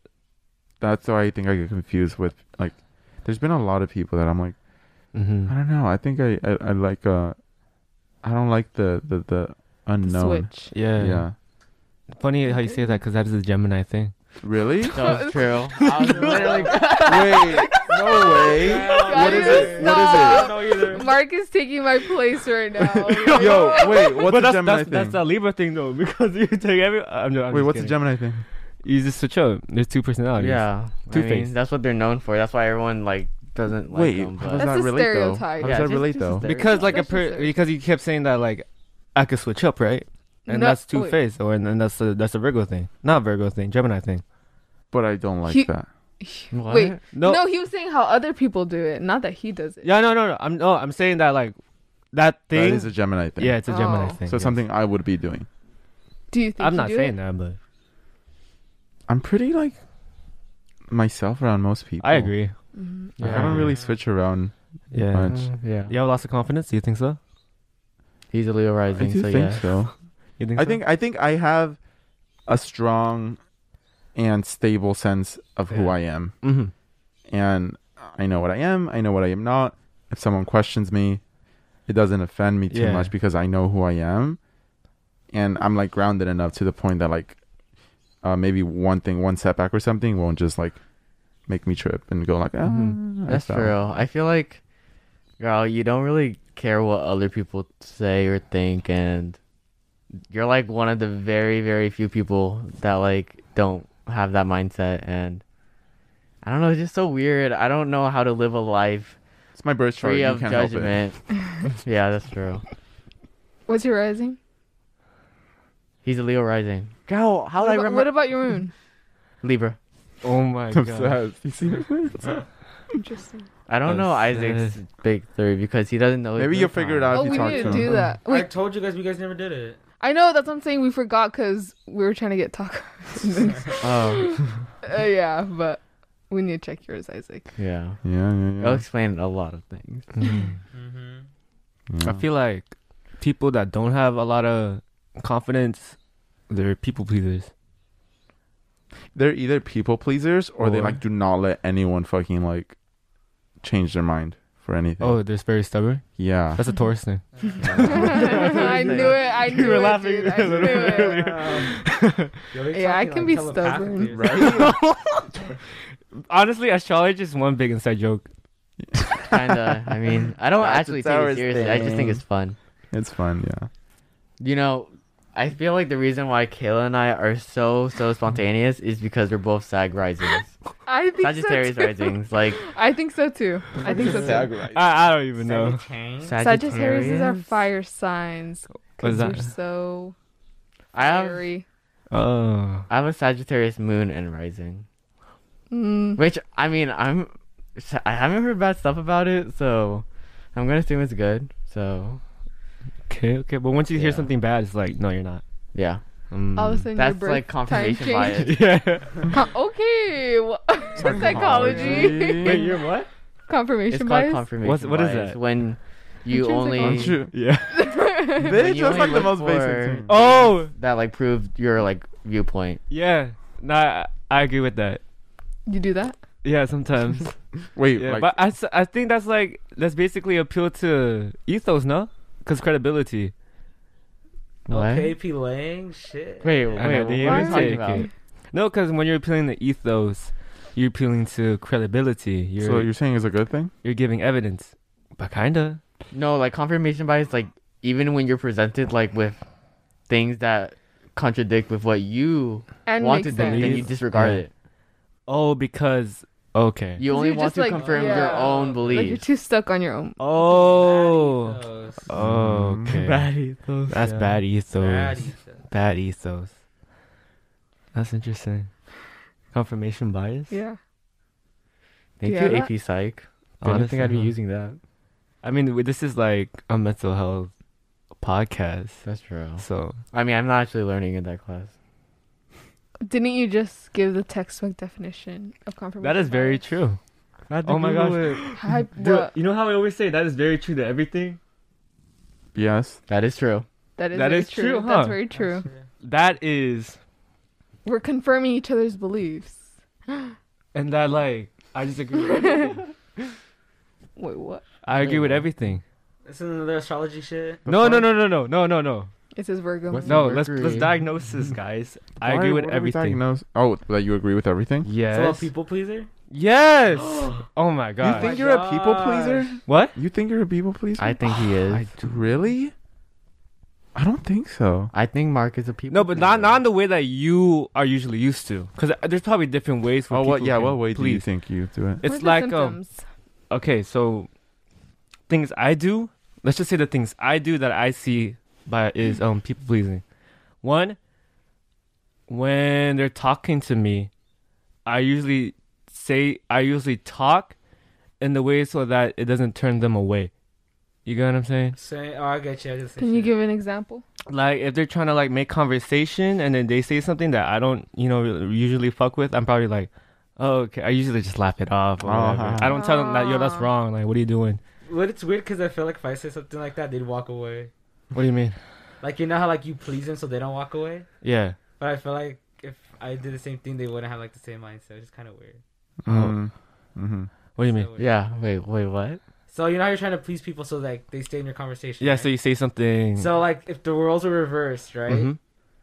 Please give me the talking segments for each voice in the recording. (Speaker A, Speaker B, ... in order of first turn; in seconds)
Speaker A: 0.8-4.5, 5.5-7.4, 8.2-11.3, 14.4-15.2, 17.0-20.6, 22.8-25.2, 27.5-28.4, 33.9-36.4, 44.9-45.9, 52.5-55.5, 59.1-59.8, 60.9-62.4, 63.2-65.4, 68.9-69.9, 70.5-71.8, 72.5-73.4, 74.1-76.4, 77.3-81.2, 81.8-84.4, 85.3-87.4, 88.2-90.8, 91.5-93.7, 109.5-111.0, 120.7-122.4, 126.3-128.0, 138.0-138.8, 141.9-142.2, 149.1-152.8, 153.6-155.2, 156.2-156.6, 157.7-158.2, 164.1-164.8, 168.8-172.2, 172.9-173.7, 183.8-184.8, 210.9-212.7, 216.8-217.4, 218.3-220.2, 227.7-228.3, 242.6-243.7, 262.1-263.0, 292.5-293.0, 307.6-308.2, 312.2-314.9, 318.0-321.2, 322.0-322.7, 323.9-324.9, 330.1-332.0, 362.0-362.8, 376.0-377.3
Speaker B: 5.1-5.5, 10.7-11.3, 12.2-14.1, 15.8-17.3, 23.1-28.0, 28.8-31.5, 36.4-44.2, 47.1-47.4, 49.8-51.5, 52.1-54.6, 56.6-57.6, 62.0-62.5, 63.2-63.7, 64.9-67.2, 70.4-70.8, 75.7-76.7, 82.7-83.1, 92.6-93.0, 120.2-121.2, 123.8-124.7, 140.1-140.6, 142.0-145.9, 146.5-147.5, 150.6-151.0, 155.0-162.3, 164.4-165.3, 166.1-168.2, 183.9-185.8, 189.0-189.4, 192.1-192.9, 203.1-205.4, 206.3-206.9, 208.3-209.3, 212.2-213.1, 214.6-215.4, 217.3-218.1, 220.1-220.7, 222.9-225.0, 226.4-227.4, 227.9-233.3, 236.8-242.9, 243.8-245.8, 253.3-254.4, 255.3-257.0, 260.2-263.3, 263.9-266.5, 267.9-268.7, 269.5-270.5, 273.6-274.3, 275.4-277.5, 278.2-279.1, 279.6-280.0, 286.0-287.0, 287.6-291.4, 294.1-295.2, 296.0-297.0, 300.7-302.8, 304.8-305.8, 307.7-309.1, 310.0-313.2, 314.8-315.5, 316.3-318.4, 319.6-319.9, 321.7-322.3, 325.9-331.2, 332.0-332.8, 333.5-334.3, 335.3-340.0, 340.6-341.0, 342.3-344.1, 344.9-347.5, 348.2-350.3, 351.0-351.8, 354.3-364.6, 368.1-368.6, 371.2-371.6, 376.1-376.4, 377.6-377.9, 382.0-383.4, 385.1-385.4
Speaker C: 10.0-10.7, 12.5-13.0, 14.9-24.2, 34.5-37.6, 40.5-41.2, 46.2-49.9, 53.7-54.2, 56.3-57.1, 62.7-63.1, 113.7-114.4, 117.6-118.7, 123.0-123.5, 127.1-128.5, 130.0-137.5, 157.8-161.6, 162.7-164.7, 180.8-184.5, 186.4-190.1, 191.0-191.6, 195.7-196.2, 206.6-208.6, 209.3-212.7, 213.5-214.4, 216.3-218.7, 225.7-226.2, 237.2-238.1, 252.8-253.9, 257.1-260.2, 270.5-270.8, 272.2-272.7, 283.0-286.6, 288.6-289.3, 294.0-295.6, 297.8-300.3, 302.1-302.8, 304.1-304.6, 309.3-310.3, 332.0-333.0, 353.0-354.0, 362.6-363.7
Speaker D: 14.9-17.0, 30.4-34.7, 35.6-36.9, 46.5-47.0, 63.2-63.7, 65.3-65.9, 68.3-69.7, 93.2-94.6, 95.4-99.4, 100.3-105.4, 106.4-109.2, 110.0-112.6, 116.0-118.3, 119.4-119.8, 123.7-127.7, 133.8-134.4, 137.6-138.0, 138.6-140.1, 157.6-159.9, 169.3-172.6, 174.4-180.5, 181.2-182.6, 186.2-187.5, 190.9-191.4, 192.9-194.8, 196.2-202.2, 203.9-204.3, 205.7-206.0, 206.9-208.6, 211.0-212.1, 213.9-217.2, 218.4-222.8, 234.7-235.2, 236.4-238.1, 246.1-249.4, 250.1-254.5, 257.0-259.2, 262.9-264.4, 272.2-274.8, 279.0-281.7, 287.5-288.5, 293.1-293.6, 305.0-305.5, 309.9-310.9, 321.0-321.9, 324.9-326.6, 378.0-379.2
Speaker E: 16.1-16.9, 18.5-21.1, 63.5-64.0, 128.2-129.8, 140.7-141.3, 157.3-158.2, 160.6-161.7, 162.5-164.5, 185.4-186.4, 234.7-237.4, 257.7-259.1, 260.3-262.2, 264.7-265.6, 295.3-295.9, 306.2-307.6, 315.1-316.1, 316.9-317.4, 318.0-319.6, 351.7-353.3, 364.9-367.7, 369.0-371.1, 371.8-375.6, 377.6-378.1, 379.5-382.3, 383.1-385.3